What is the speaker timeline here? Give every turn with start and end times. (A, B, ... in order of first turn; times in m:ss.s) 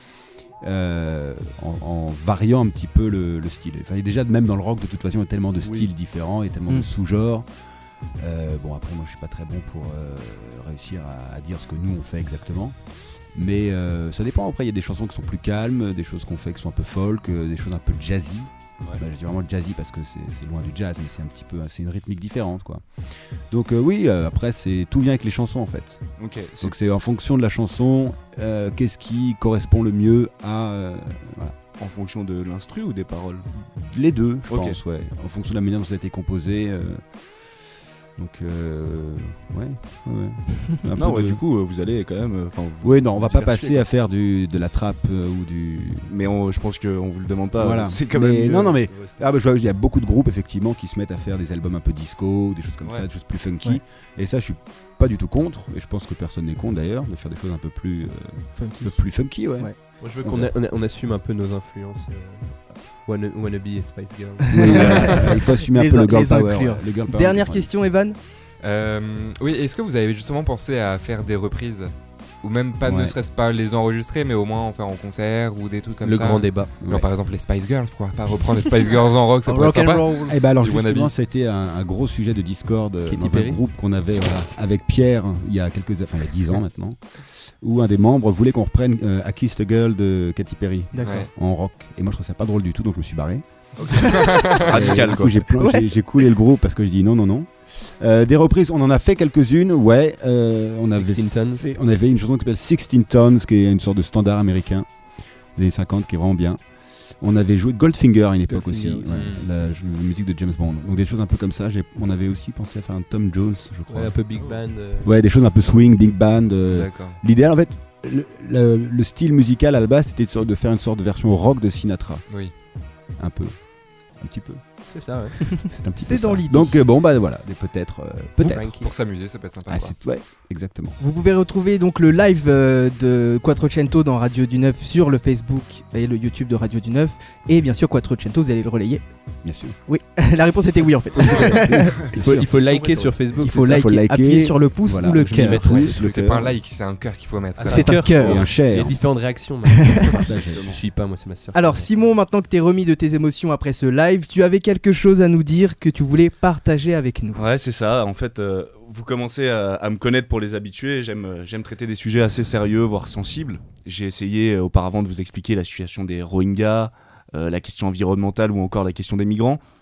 0:00.6-0:07.4 A
0:08.2-0:12.8 A
0:13.3-0:22.8 A
0:23.5-0:26.0 A
0:26.2-0:26.7 B
0:26.6-0:31.5 A
0:31.8-0:33.5 B
0:33.6-0:37.0 A
0:34.5-0:34.8 B
0:38.2-0:41.4 A
0:40.9-0:43.8 B
0:42.8-0:46.1 A
0:46.1-0:49.2 B
0:47.5-1:00.5 A
0:58.6-0:59.8 C
1:00.0-1:05.2 D
1:04.5-1:08.2 C
1:04.5-1:07.7 A
1:08.6-1:21.1 E
1:12.8-1:13.2 A
1:16.0-1:16.7 D
1:16.8-1:17.1 A
1:19.4-1:20.3 C
1:20.3-1:33.4 A
1:23.0-1:23.6 D
1:30.9-1:31.3 C
1:31.0-1:31.3 E
1:33.8-1:35.5 B
1:34.0-1:44.9 A
1:34.0-1:34.3 C
1:34.1-1:34.6 E
1:35.6-1:35.8 C
1:40.9-1:41.6 D
1:45.5-1:46.6 A
1:47.2-1:54.2 A
1:48.5-1:49.1 D
1:49.1-1:49.4 E
1:53.9-1:55.1 D
1:54.8-2:02.2 A
1:56.7-1:57.2 E
2:03.2-2:03.6 A
2:04.1-2:04.8 A
2:04.9-2:05.7 D
2:05.7-2:08.8 A
2:06.0-2:06.8 C
2:08.4-2:08.9 D
2:08.5-2:09.9 E
2:09.7-2:11.0 A
2:11.0-2:19.0 C
2:19.4-2:19.8 A
2:19.9-2:22.0 C
2:21.2-2:23.8 D
2:21.4-2:22.6 A
2:22.6-2:23.1 B
2:23.4-2:25.9 C
2:23.4-2:26.5 A
2:25.1-2:26.3 D
2:25.8-2:28.0 E
2:27.6-2:31.9 D
2:27.7-2:28.4 C
2:28.2-2:29.0 A
2:30.2-2:30.7 A
2:30.5-2:30.8 B
2:31.5-2:37.4 C
2:37.3-2:49.6 B